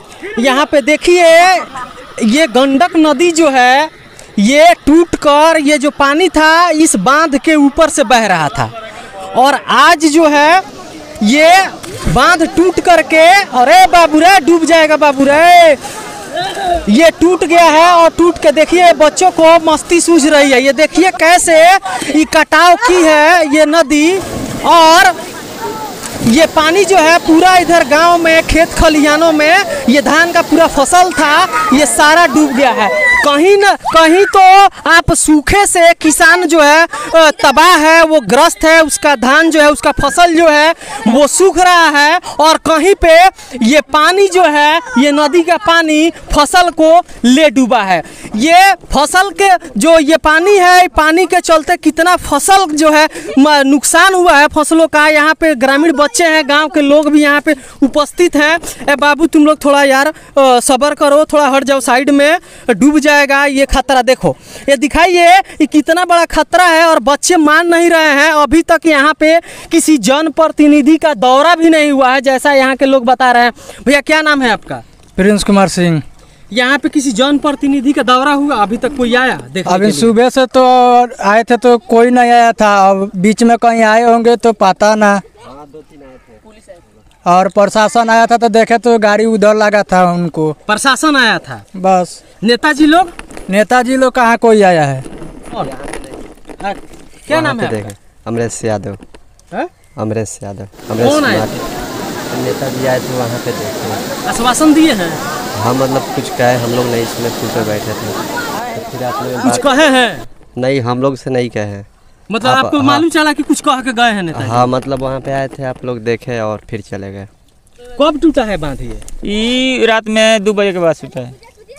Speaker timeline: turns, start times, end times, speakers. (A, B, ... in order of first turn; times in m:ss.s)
0:00.3-0:08.7 A
0:09.3-0:10.6 A
0:11.2-0:15.8 A
0:16.7-0:25.2 A
0:26.2-1:14.8 A
1:15.2-1:16.0 B
1:16.5-1:20.2 A
1:19.7-1:25.2 B
1:25.4-1:26.4 C
1:27.2-1:30.6 B
1:30.7-1:31.6 A
1:31.8-1:32.2 B
1:32.4-1:33.1 A
1:33.5-1:35.1 B
1:35.6-1:36.3 C
1:36.6-1:37.9 A
1:37.3-1:39.0 C
1:40.0-1:41.5 C
1:41.0-1:41.7 A
1:42.3-1:44.0 C
1:44.2-1:45.2 A
1:45.5-1:49.7 C
1:49.4-1:50.3 A
1:50.6-1:51.9 C
1:52.3-1:54.7 A
1:52.4-1:53.1 C
1:54.3-1:57.3 C
1:58.0-1:59.0 A
1:59.2-2:01.4 D